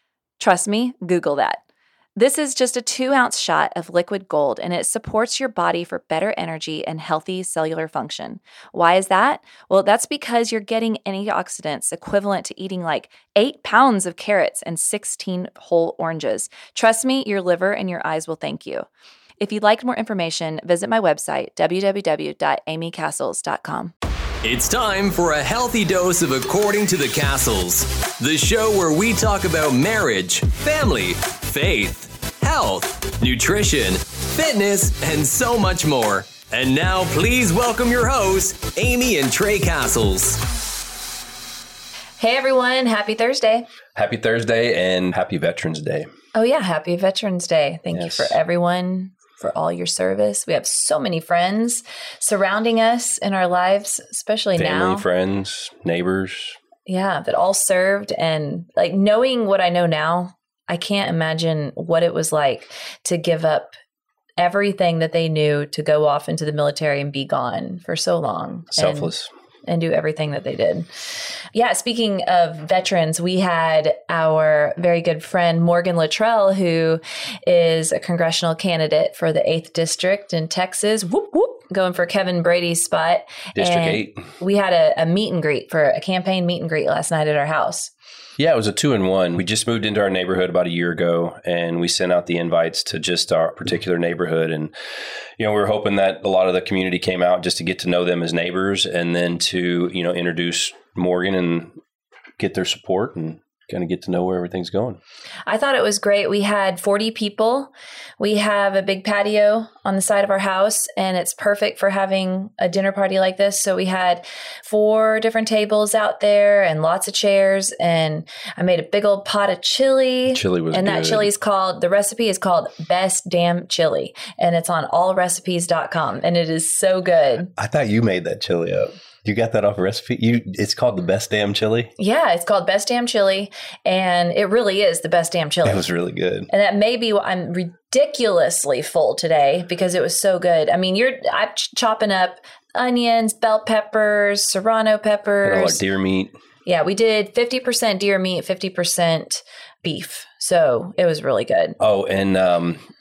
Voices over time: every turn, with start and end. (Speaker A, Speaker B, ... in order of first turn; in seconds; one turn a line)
Speaker A: 0.4-1.6
Speaker A: 2.2-18.9
Speaker A: 19.4-23.9
Speaker B: 24.4-40.4
Speaker A: 42.2-43.7
Speaker C: 44.0-46.1
Speaker A: 46.3-55.1
Speaker C: 47.9-48.4
Speaker C: 54.6-56.6
Speaker A: 56.9-63.7
Speaker A: 64.4-69.1
Speaker C: 68.8-69.3
Speaker A: 69.7-70.9
Speaker A: 71.5-87.9
Speaker C: 83.5-84.2
Speaker C: 88.4-94.7
Speaker C: 95.4-101.7
Speaker C: 102.4-105.0
Speaker A: 105.5-127.5
Speaker C: 120.3-121.3
Speaker C: 127.6-131.9
Speaker A: 132.0-135.8
Speaker C: 135.6-136.5
Speaker A: 136.5-145.8
Speaker C: 145.4-146.3
Speaker A: 146.7-151.8
Speaker C: 151.8-152.8